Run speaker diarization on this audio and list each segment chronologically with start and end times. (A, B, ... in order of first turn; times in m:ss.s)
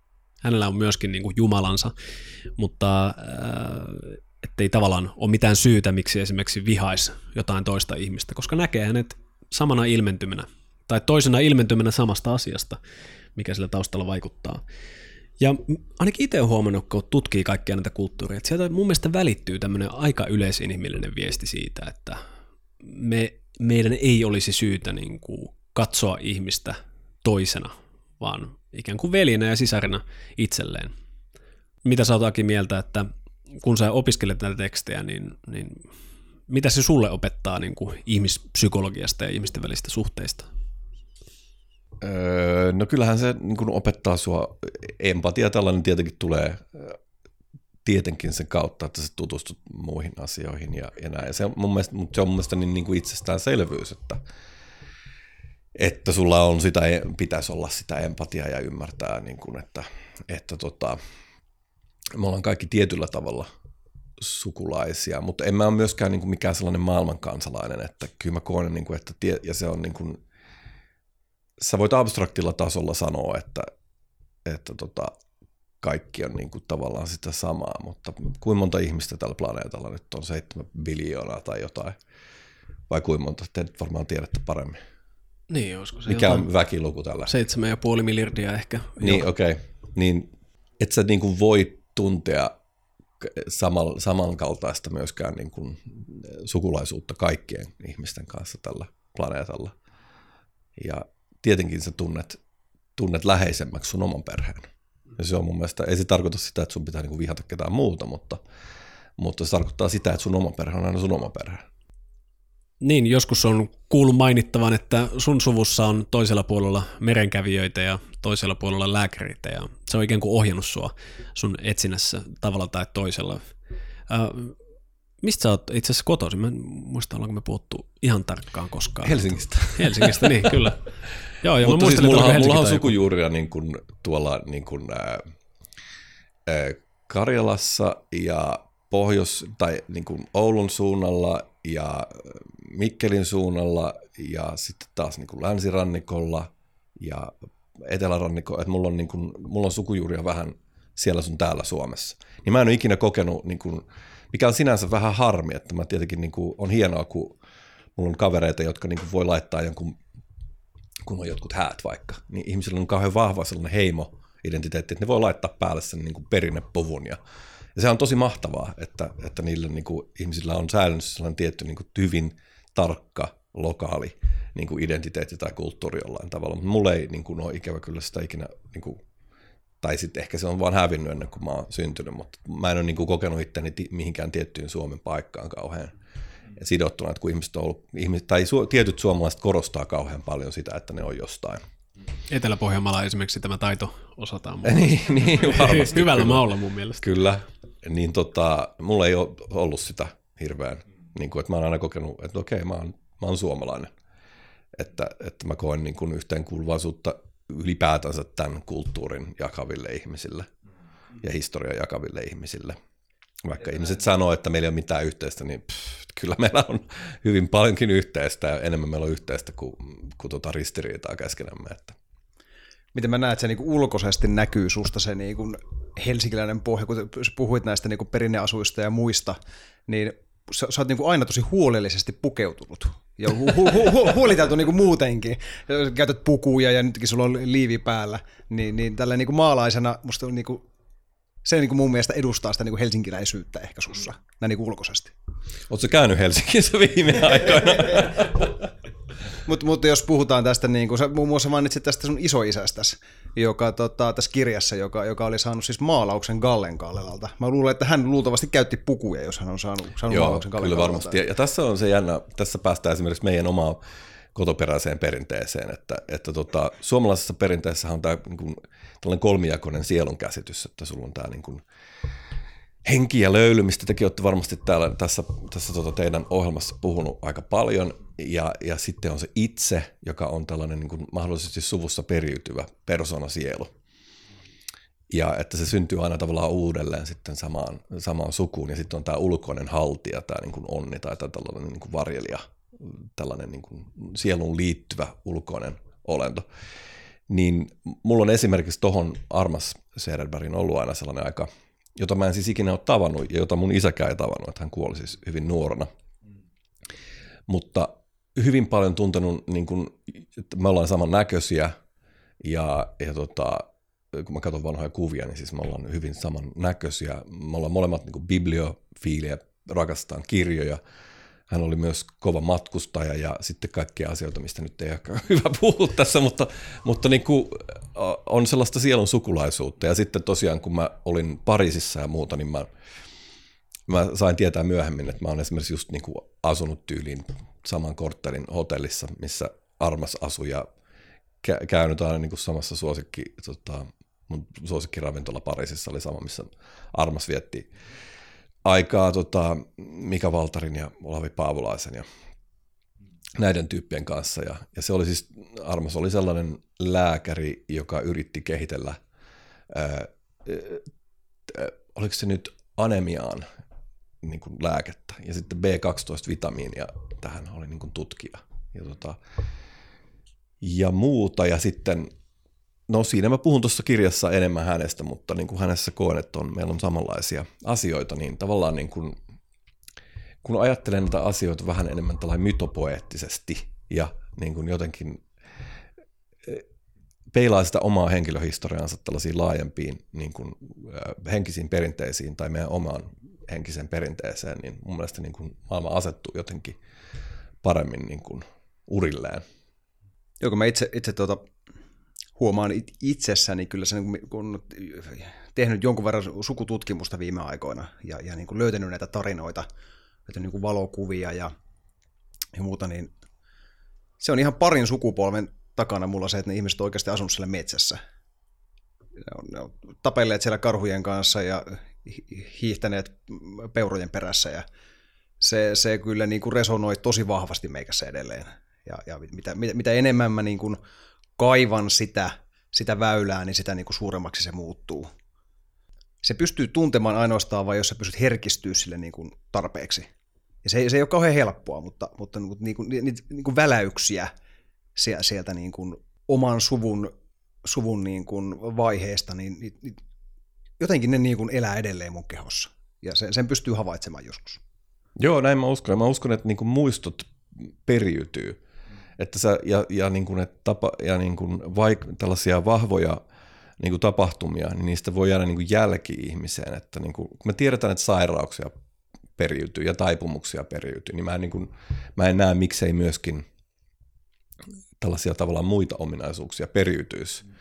0:00.4-0:01.9 A
0:02.6-0:12.8 A
0:13.4-0:14.6 A
0:15.4-0:22.2 A
0:22.8-0:30.9 A
0:31.8-0:33.1 A
0:33.6-0:35.8 A
0:36.5-0:40.5 A
0:42.0-0:47.0 B
0:47.8-0:54.2 B
0:55.8-1:01.0 B
1:02.1-1:03.5 B
1:04.2-1:10.2 B
1:11.6-1:13.7 B
1:14.4-1:15.1 B
1:15.8-1:22.0 B
1:22.9-1:24.8 B
1:25.5-1:26.5 A
1:26.1-1:27.3 B
1:27.3-1:29.2 A
1:29.0-1:32.5 B
1:33.2-1:39.7 B
1:40.8-1:42.4 B
1:43.0-1:48.4 B
1:49.2-1:51.6 B
1:52.8-2:03.5 A
2:04.1-2:04.6 A
2:05.2-2:10.8 A
2:09.0-2:10.5 B
2:11.4-2:12.9 A
2:11.6-2:15.2 B
2:16.4-2:37.4 B
2:38.0-2:40.0 B
2:41.0-2:47.2 B
2:47.7-2:59.0 B
2:59.8-3:05.9 B
3:06.6-3:11.6 B
3:12.3-3:17.1 A
3:14.6-3:16.4 B
3:17.0-3:23.9 B
3:24.7-3:30.5 B
3:31.2-3:32.8 B
3:33.4-3:42.0 B
3:42.9-4:00.6 C
4:01.4-4:05.1 C
4:05.7-4:08.7 B
4:09.4-4:21.2 C
4:20.1-4:23.8 B
4:24.3-4:31.6 B
4:32.8-4:43.7 B
4:45.1-4:56.4 B
4:57.3-5:05.9 B
5:07.5-5:11.7 B
5:12.4-5:20.8 B
5:21.5-5:32.7 B
5:33.9-5:40.7 B
5:41.4-5:47.7 B
5:48.6-5:52.0 B
5:53.4-5:59.0 B
5:59.7-6:00.8 B
6:01.5-6:03.4 B
6:04.2-6:09.2 B
6:10.6-6:12.1 B
6:12.9-6:19.2 B
6:20.4-6:25.2 B
6:27.3-6:36.8 B
6:37.6-6:39.4 B
6:40.4-6:41.4 C
6:42.4-6:49.7 C
6:50.3-6:51.5 C
6:52.5-6:53.1 C
6:54.2-6:58.0 C
6:59.2-7:04.6 C
7:05.4-7:10.8 C
7:11.4-7:15.1 C
7:16.2-7:20.1 C
7:20.6-7:24.3 C
7:25.0-7:27.1 C
7:27.6-7:30.0 C
7:30.8-7:34.6 C
7:35.2-7:38.6 B
7:39.2-7:43.2 B
7:43.8-7:48.7 B
7:49.4-7:53.4 B
7:55.0-7:57.4 B